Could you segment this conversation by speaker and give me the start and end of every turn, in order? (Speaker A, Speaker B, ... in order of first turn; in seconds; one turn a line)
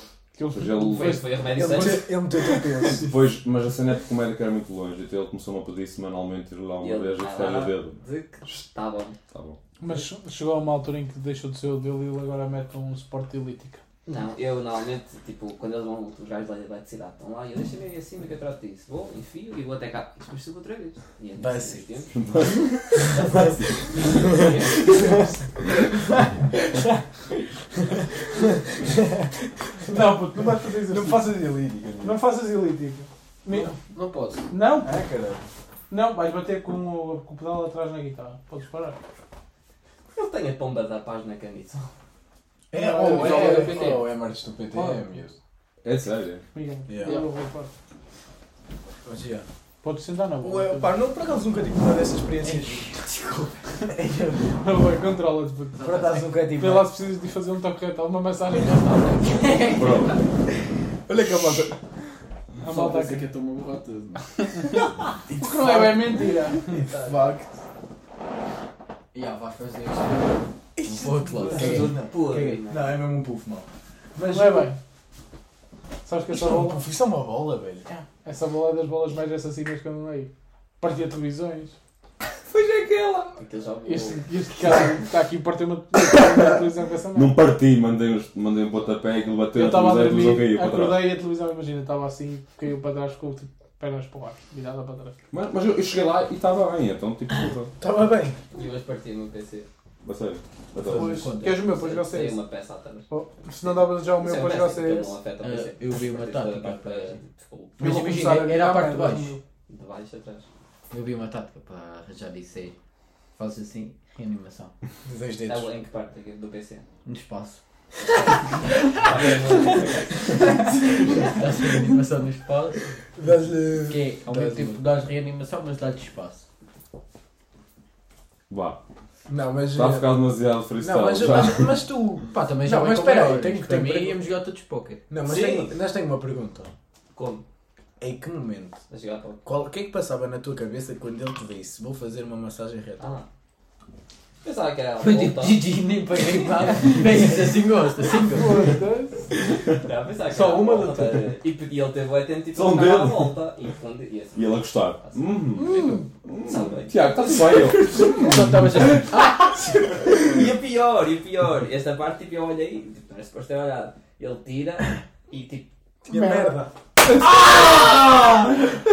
Speaker A: 0.3-1.8
Speaker B: 0.5-1.2
Speaker C: 0.9-2.1
Speaker D: 1.5-3.1
Speaker B: 2.9-8.0
Speaker C: 6.8-9.2
Speaker B: 9.3-9.6
Speaker A: 9.8-13.8
Speaker C: 14.1-22.1
Speaker D: 21.4-21.9
Speaker B: 22.1-23.6
Speaker D: 23.1-25.3
Speaker C: 24.1-25.0
Speaker D: 26.7-27.0
Speaker D: 28.0-32.2
Speaker A: 29.9-31.4
Speaker A: 32.0-33.7
Speaker E: 33.9-34.5
Speaker A: 34.5-35.0
Speaker D: 34.8-35.4
Speaker A: 35.9-39.0
Speaker C: 40.1-41.9
Speaker A: 42.7-44.0
Speaker D: 42.7-45.4
Speaker E: 43.0-44.0
Speaker A: 44.7-45.0
Speaker B: 45.8-46.4
Speaker A: 46.5-47.7
Speaker D: 46.9-47.2
Speaker D: 49.0-49.5
Speaker A: 49.8-50.9
Speaker D: 50.4-53.0
Speaker E: 52.4-53.6
Speaker D: 53.9-54.5
Speaker A: 54.5-59.6
Speaker E: 55.8-56.2
Speaker D: 55.8-56.9
Speaker E: 59.0-60.2
Speaker B: 59.7-60.2
Speaker D: 61.1-61.8
Speaker A: 62.6-63.3
Speaker E: 62.6-64.7
Speaker D: 65.3-67.5
Speaker A: 65.4-66.8
Speaker C: 66.9-67.2
Speaker E: 69.1-72.5
Speaker D: 70.8-74.7
Speaker C: 71.5-73.0
Speaker A: 74.2-74.8
Speaker A: 76.0-76.8
Speaker D: 76.3-77.9
Speaker A: 78.0-81.7
Speaker C: 82.5-84.3
Speaker A: 83.8-87.5
Speaker B: 87.1-91.1
Speaker A: 89.5-95.1
Speaker B: 95.3-97.7
Speaker D: 97.8-98.4
Speaker C: 98.5-99.7
Speaker B: 100.0-101.2
Speaker E: 100.8-101.7
Speaker A: 100.9-102.4
Speaker C: 101.6-103.1
Speaker A: 103.1-105.2
Speaker C: 103.6-107.8
Speaker E: 105.4-107.2
Speaker E: 107.8-109.3
Speaker A: 107.8-109.4
Speaker C: 109.7-110.5
Speaker E: 110.9-112.7
Speaker E: 113.3-114.7
Speaker D: 115.0-115.7
Speaker C: 115.5-116.8
Speaker E: 117.0-117.6
Speaker C: 118.9-120.7
Speaker E: 121.1-122.8
Speaker D: 123.2-124.8
Speaker E: 123.9-126.4
Speaker B: 128.5-128.8
Speaker D: 129.3-130.1
Speaker B: 129.7-131.8
Speaker D: 130.8-134.2
Speaker E: 132.3-135.0
Speaker D: 135.1-136.7
Speaker C: 135.2-135.7
Speaker C: 137.1-137.4
Speaker D: 138.0-138.8
Speaker C: 138.9-139.4
Speaker D: 139.4-143.2
Speaker C: 143.0-143.3
Speaker C: 144.4-145.6
Speaker E: 145.0-148.7
Speaker A: 148.2-149.3
Speaker C: 149.8-154.5
Speaker E: 150.3-151.3
Speaker B: 152.5-153.4
Speaker B: 154.3-158.6
Speaker A: 155.6-156.1
Speaker C: 156.5-157.5
Speaker E: 157.9-159.5
Speaker C: 159.8-165.7
Speaker D: 166.0-166.7
Speaker A: 166.1-168.3
Speaker C: 167.4-168.1